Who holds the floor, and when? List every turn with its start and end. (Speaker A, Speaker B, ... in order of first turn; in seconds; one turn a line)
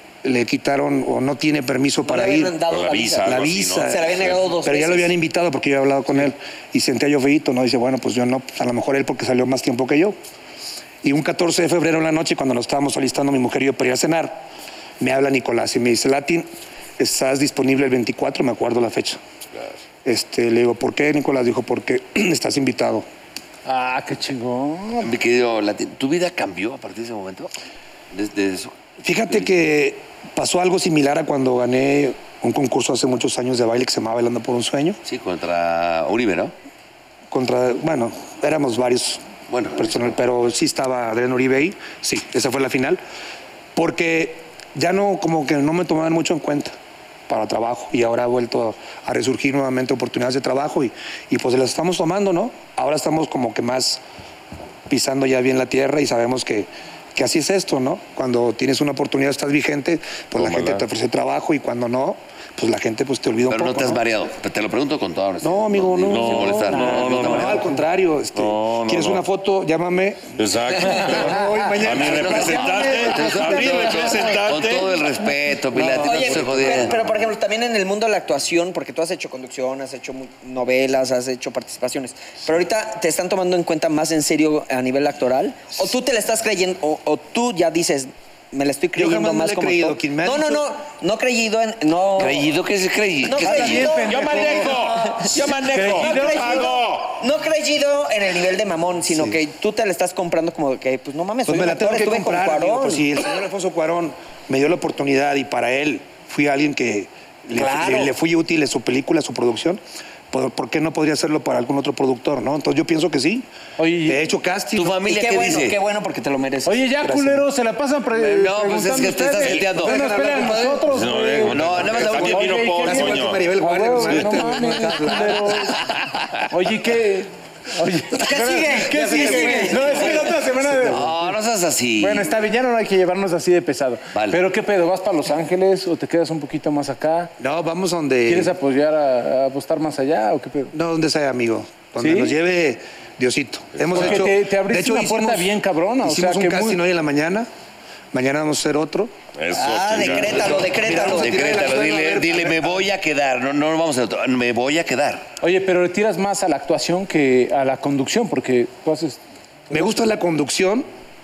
Speaker A: 0.2-2.6
Speaker B: 2.0-5.1
Speaker C: 2.7-4.5
Speaker A: 3.2-10.2
Speaker A: 11.0-14.5
Speaker A: 15.0-19.2
Speaker A: 20.1-23.1
Speaker D: 23.6-25.1
Speaker E: 25.0-27.5
Speaker E: 28.1-29.5
Speaker A: 29.0-35.0
Speaker E: 35.0-36.5
Speaker A: 37.3-39.2
Speaker E: 39.5-40.2
Speaker A: 39.8-43.0
Speaker A: 43.8-46.7
Speaker A: 47.3-54.0
Speaker A: 54.9-64.0
Speaker C: 60.4-60.9
Speaker E: 63.5-67.7
Speaker A: 65.4-72.8
Speaker C: 66.1-67.7
Speaker D: 66.7-67.0
Speaker C: 68.3-69.3
Speaker C: 70.4-75.0
Speaker E: 71.8-77.0
Speaker D: 72.3-74.4
Speaker D: 75.8-76.1
Speaker A: 75.9-77.0
Speaker B: 76.0-92.6
Speaker A: 88.9-90.7
Speaker E: 92.2-94.0
Speaker B: 93.2-103.1
Speaker D: 93.5-96.8
Speaker C: 94.1-97.2
Speaker A: 99.1-99.4
Speaker A: 101.5-113.5
Speaker B: 107.5-108.1
Speaker D: 113.8-114.2
Speaker A: 114.1-115.0
Speaker E: 114.8-115.8
Speaker B: 115.0-116.9
Speaker D: 116.7-125.8
Speaker A: 117.0-117.5
Speaker E: 118.2-120.1
Speaker A: 119.5-120.9
Speaker C: 120.9-123.5
Speaker E: 121.5-122.6
Speaker A: 121.6-125.8
Speaker C: 124.0-124.4
Speaker D: 126.5-131.3
Speaker B: 128.2-130.2
Speaker A: 129.0-130.2
Speaker E: 130.6-132.4
Speaker D: 132.0-137.3
Speaker E: 134.1-134.4
Speaker A: 137.4-138.5
Speaker D: 138.3-140.7
Speaker A: 140.7-147.5
Speaker D: 142.0-142.3
Speaker C: 143.8-144.2
Speaker D: 143.9-146.8
Speaker A: 148.1-149.1
Speaker C: 149.4-150.6
Speaker B: 149.5-151.5
Speaker E: 150.0-155.3
Speaker A: 150.3-152.8
Speaker D: 155.4-159.2
Speaker A: 159.7-160.9